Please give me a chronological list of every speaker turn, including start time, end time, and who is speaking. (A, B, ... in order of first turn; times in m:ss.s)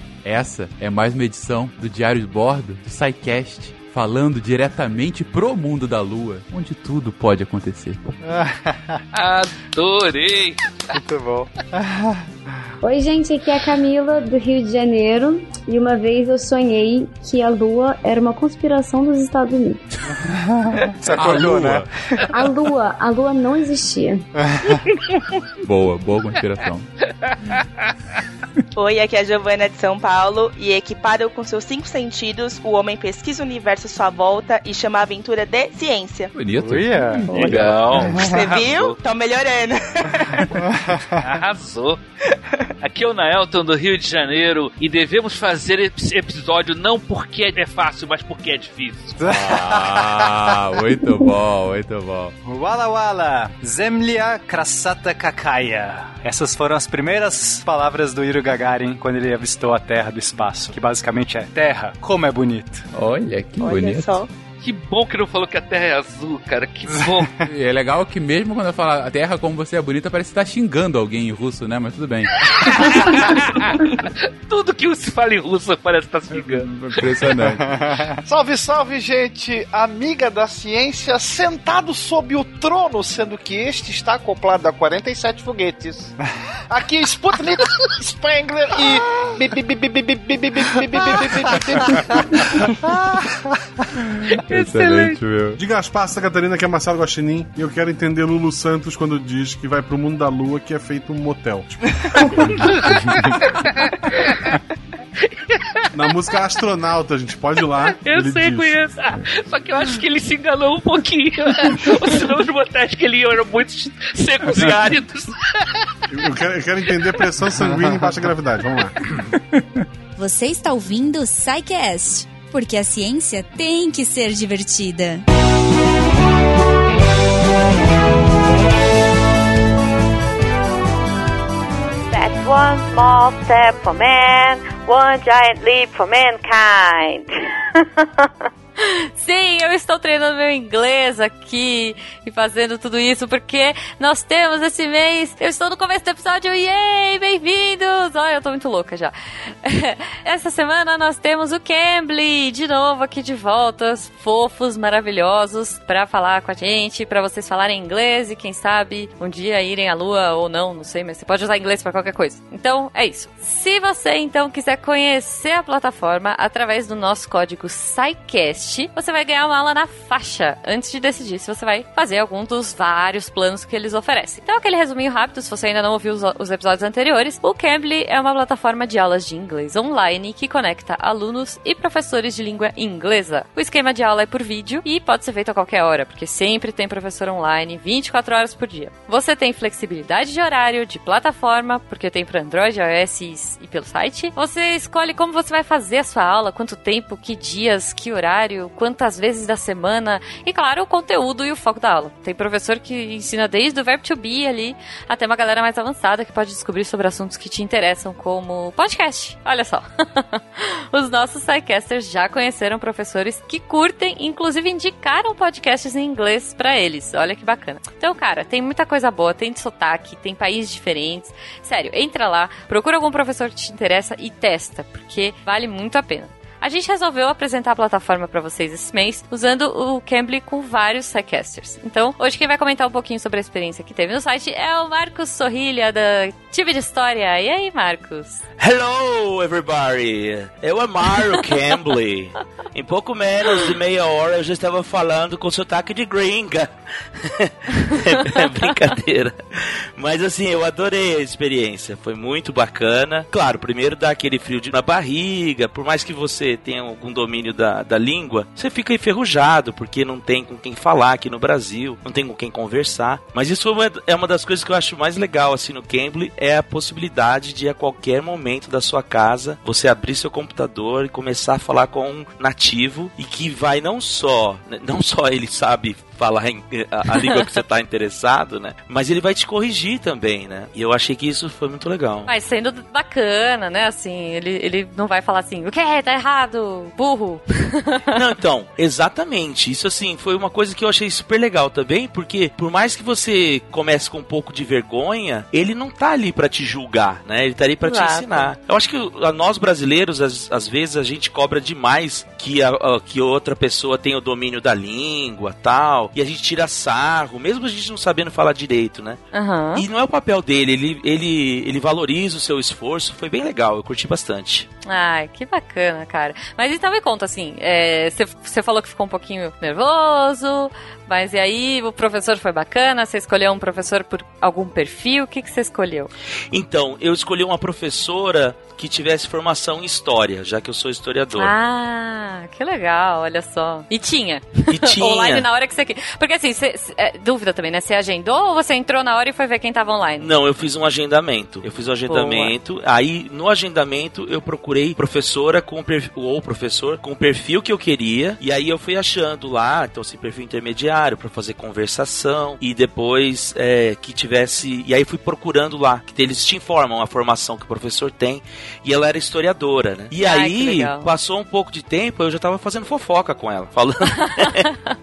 0:00.2-0:08.2 A
0:08.2-0:09.0 B
0:09.1-0:10.6 C
0:10.9-0:12.6 B
0:12.8-0:19.8 D
0:20.2-0:21.9 B
0:21.1-0:21.9 A
0:22.3-0:24.2 D
0:24.4-0:24.8 B
0:25.6-0:26.8 A
0:27.2-0:27.6 C
0:28.8-0:36.3 E
0:36.3-0:38.2 A
0:36.6-0:37.3 B
0:37.3-0:39.0 C
0:38.1-0:40.5 E
0:40.6-0:41.2 B
0:41.2-0:42.0 C
0:42.8-0:49.2 C
0:49.2-0:50.5 B
0:49.3-0:52.3 A
0:52.4-1:02.8 B
1:02.9-1:04.2 A
1:03.6-1:04.3 E
1:04.6-1:07.3 C
1:06.9-1:07.5 B
1:07.4-1:13.4 A
1:12.4-1:17.1 C
1:16.4-1:17.7 A
1:17.4-1:18.2 B
1:18.2-1:26.1 F
1:26.7-1:32.5 F
1:31.8-1:32.4 A
1:32.8-1:33.8 B
1:34.0-1:35.6 A
1:35.5-1:43.0 G
1:42.6-1:42.9 C
1:42.9-1:43.4 A
1:43.5-1:44.4 C
1:45.3-1:45.9 C
1:45.9-1:48.8 G
1:47.9-1:56.0 C
1:56.1-1:59.0 G
1:59.2-1:59.8 A
2:00.2-2:05.2 H
2:12.0-2:18.3 I
2:18.8-3:58.4 I
3:58.6-4:42.3 J
4:42.3-4:48.0 I
4:48.1-5:09.2 J
4:57.8-4:58.5 I
5:09.3-5:09.8 I
5:09.7-5:14.7 J
5:14.8-5:26.1 I
5:26.5-5:31.5 J
5:31.4-5:40.3 I
5:34.7-5:35.4 J
5:40.2-6:04.7 J
5:42.1-5:42.5 I
6:00.2-6:01.1 I